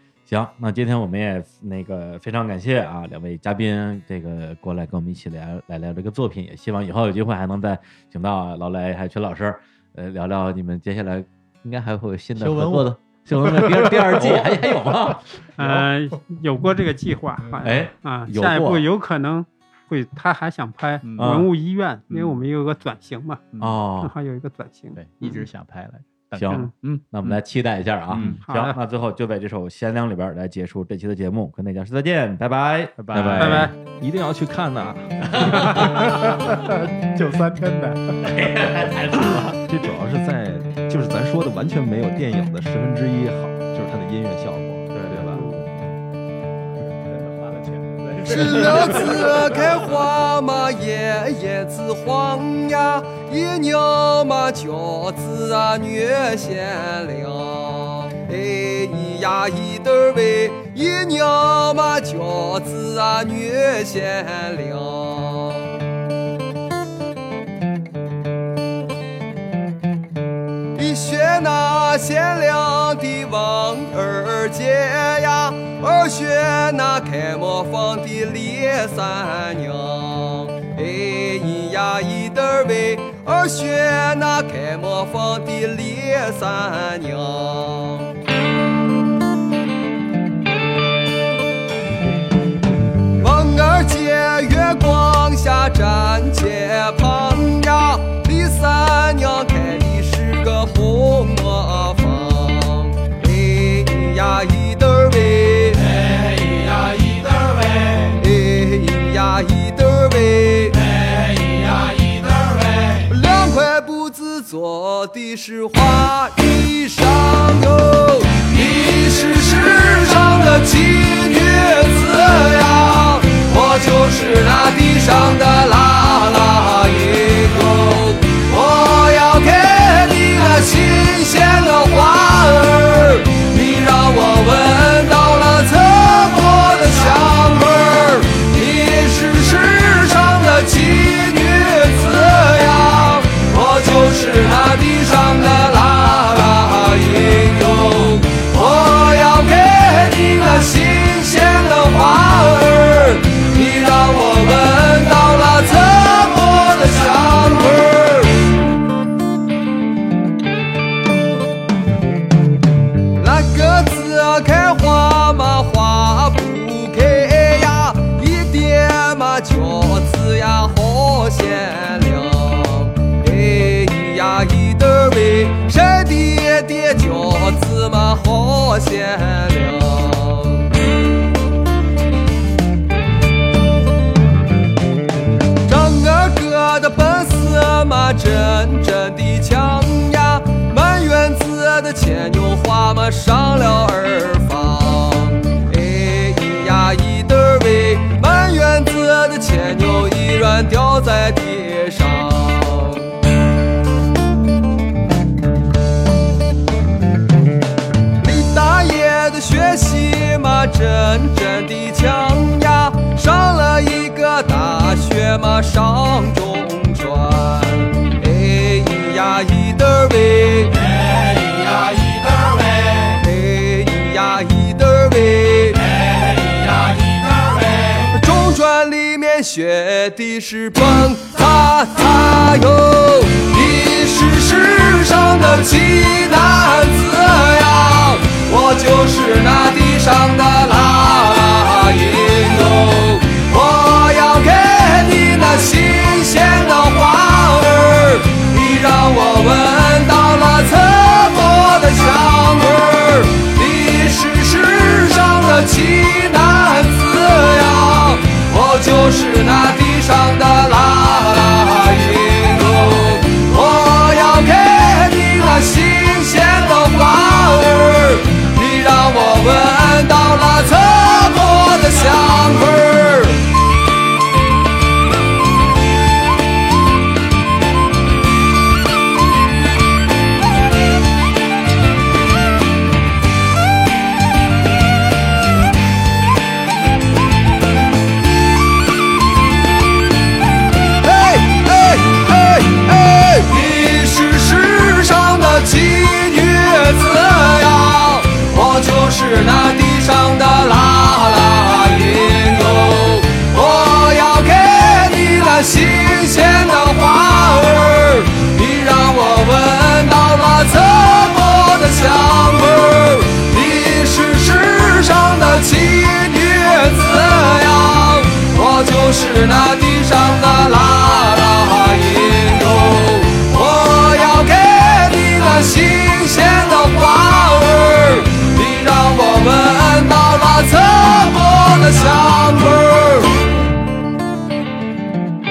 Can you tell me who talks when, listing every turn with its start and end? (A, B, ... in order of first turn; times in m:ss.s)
0:00.3-0:15.3 A
0:12.4-0:14.9 B
0:15.6-0:23.4 C
0:17.6-0:18.8 A
0:21.0-0:21.5 B
0:21.2-0:21.5 A
0:22.1-0:22.4 B
0:23.5-0:23.8 B
0:23.6-0:24.1 A
0:24.0-0:25.4 C
0:24.9-0:27.4 B
0:26.3-0:33.6 A
0:28.1-0:28.4 B
0:28.4-0:28.8 C
0:33.0-0:33.7 B
0:33.1-0:36.2 D
0:33.4-0:33.7 C
0:35.3-0:38.6 B
0:35.3-0:36.2 A
0:38.2-0:39.6 A
0:39.6-0:45.6 D
0:44.9-0:45.3 A
0:47.0-0:49.7 B
0:48.3-1:05.8 E
0:48.4-0:49.0 A
1:10.7-1:28.1 E
1:33.2-1:52.0 E
1:52.6-2:38.5 E
2:43.2-3:00.7 E
3:05.6-3:23.1 E
3:28.2-3:46.1 E
3:47.0-4:33.4 E
4:51.0-5:33.4 E